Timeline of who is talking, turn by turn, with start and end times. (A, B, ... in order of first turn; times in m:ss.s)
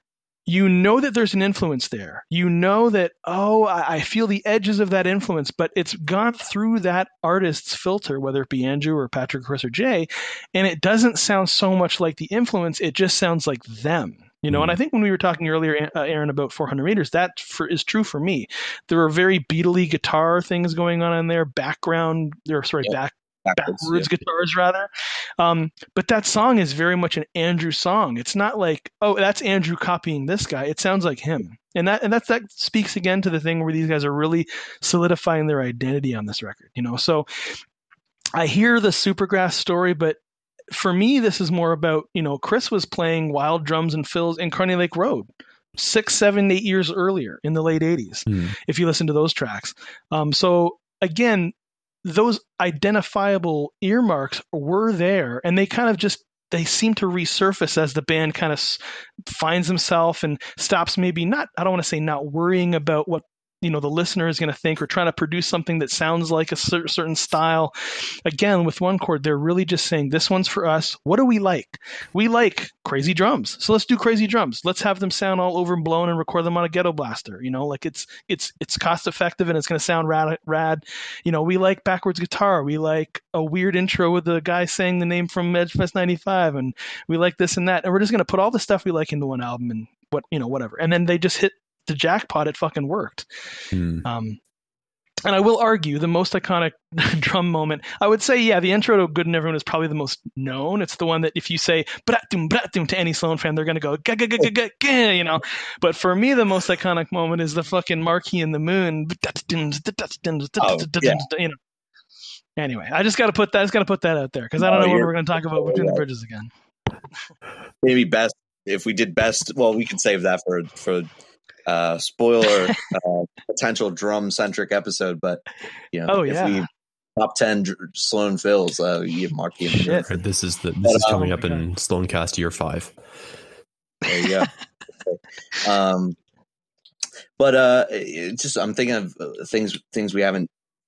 0:00.4-0:37.6 A
0:14.5-0:14.8 B
0:23.4-0:24.1 C
0:38.3-0:40.2 A
0:40.7-0:51.5 A
0:48.3-0:48.5 B
0:52.0-1:33.2 A
1:33.7-1:34.0 B
1:34.0-1:34.4 A
1:35.2-1:51.6 A
1:50.6-1:51.2 C
1:52.6-1:56.5 A
1:54.6-1:56.0 C
1:57.8-2:01.1 C
2:01.6-2:10.2 C
2:06.1-2:06.6 A
2:09.6-2:10.1 A
2:10.0-2:12.9 B
2:10.8-2:11.2 C
2:11.0-2:11.6 A
2:14.0-2:14.5 C
2:15.0-2:16.2 C
2:17.4-2:20.5 C